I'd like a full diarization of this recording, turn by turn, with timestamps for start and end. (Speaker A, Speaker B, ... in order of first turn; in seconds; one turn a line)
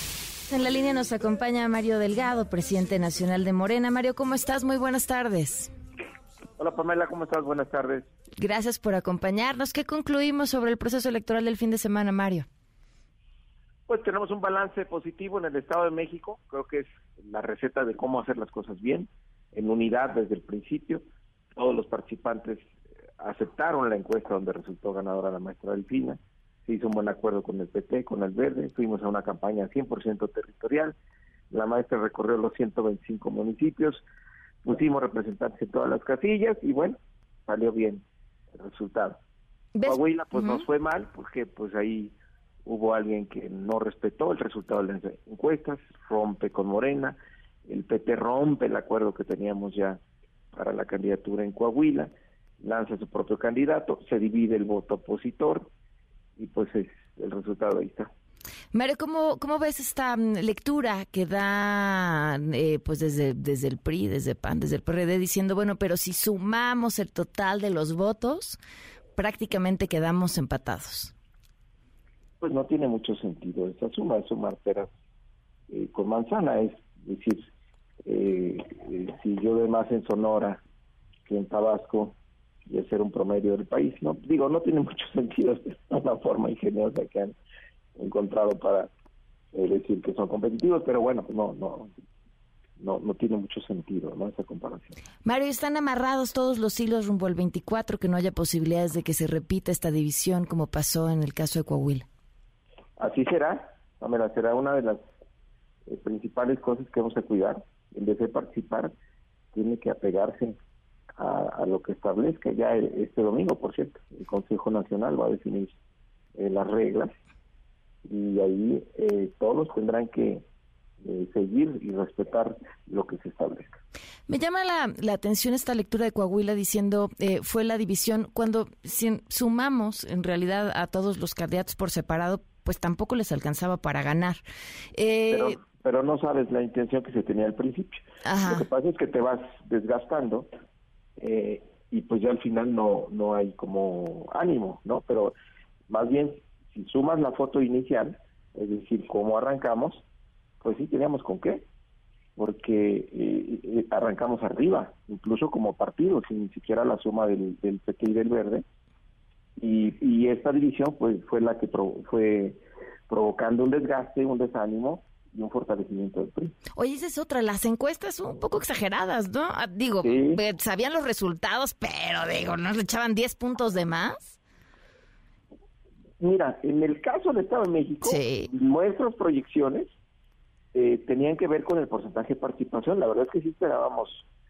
Speaker A: 0.5-5.7
Speaker B: 6.6-8.1
Speaker A: 8.4-12.5
Speaker B: 13.9-21.0
Speaker B: 21.5-22.6
Speaker B: 23.2-31.0
Speaker B: 31.5-34.0
Speaker B: 34.6-39.2
Speaker A: 39.7-40.6
Speaker B: 39.8-50.0
Speaker B: 50.5-55.7
Speaker B: 56.4-58.1
Speaker A: 58.7-68.6
Speaker A: 69.2-71.1
Speaker B: 72.4-74.9
Speaker B: 75.7-77.4
Speaker B: 78.0-80.6
Speaker B: 81.2-82.2
Speaker B: 82.7-87.3
Speaker B: 88.0-88.9
Speaker B: 89.5-91.9
Speaker B: 92.8-95.0
Speaker A: 95.2-102.0
Speaker B: 103.0-105.0
Speaker B: 105.9-108.9
Speaker B: 109.5-110.6
Speaker B: 111.2-115.7
Speaker B: 116.3-117.1
Speaker B: 118.0-120.4
Speaker B: 121.0-123.7
Speaker A: 124.3-134.4
Speaker A: 134.9-135.6
Speaker B: 135.3-140.5
Speaker A: 138.2-138.7
Speaker B: 141.2-145.3
Speaker B: 145.9-150.0
Speaker B: 150.6-151.6
Speaker B: 152.4-158.6
Speaker B: 159.6-166.6
Speaker A: 166.7-174.4
Speaker B: 170.0-170.4
Speaker B: 176.2-179.9
Speaker A: 178.0-178.5
Speaker B: 180.7-184.2